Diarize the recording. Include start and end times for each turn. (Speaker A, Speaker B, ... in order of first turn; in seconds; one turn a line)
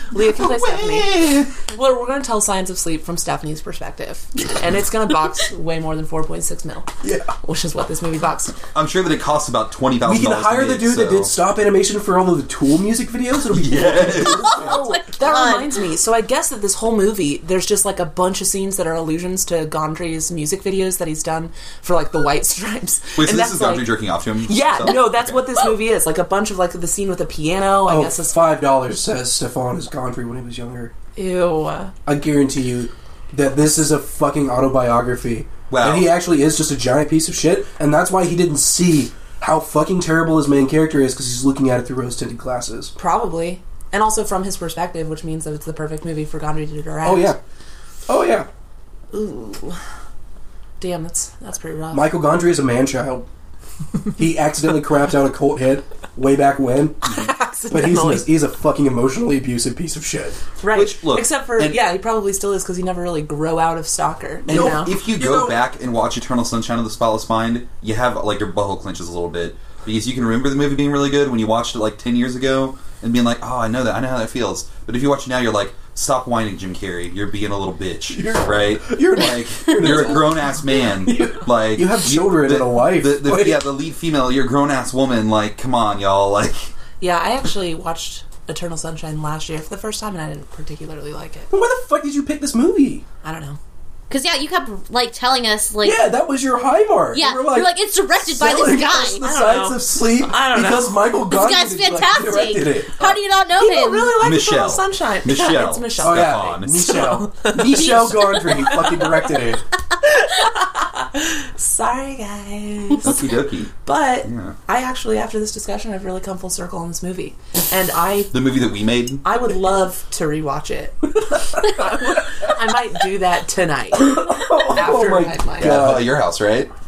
Speaker A: 0.1-6.9
Speaker B: 0.1-1.5
Speaker C: 7.0-7.3
Speaker A: 7.4-8.6
Speaker B: 8.7-11.3
Speaker C: 10.0-14.9
Speaker B: 13.5-14.6
Speaker D: 14.2-15.8
Speaker A: 14.6-23.9
Speaker B: 23.2-25.4
Speaker A: 24.4-28.4
Speaker C: 27.8-30.9
Speaker A: 31.1-31.9
Speaker C: 32.0-42.9
Speaker B: 35.7-36.1
Speaker A: 43.0-47.4
Speaker C: 47.0-47.4
Speaker C: 48.1-48.5
Speaker A: 49.1-49.8
Speaker A: 50.8-52.1
Speaker C: 51.9-53.3
Speaker C: 54.1-57.2
Speaker A: 57.0-58.3
Speaker C: 57.7-60.4
Speaker A: 60.6-65.0
Speaker B: 60.7-61.8
Speaker C: 64.5-65.6
Speaker B: 64.5-86.7
Speaker C: 78.1-83.7
Speaker A: 87.0-91.5
Speaker C: 91.5-93.0
Speaker A: 93.2-93.6
Speaker D: 94.1-96.1
Speaker C: 95.8-103.1
Speaker D: 97.1-99.2
Speaker A: 99.2-101.0
Speaker D: 101.3-104.2
Speaker A: 103.5-109.2
Speaker B: 104.2-107.0
Speaker C: 106.0-109.6
Speaker A: 110.0-113.3
Speaker B: 113.0-113.7
Speaker A: 113.8-118.3
Speaker B: 114.2-114.5
Speaker B: 118.3-119.2
Speaker A: 119.2-125.9
Speaker C: 123.9-126.2
Speaker B: 125.6-126.7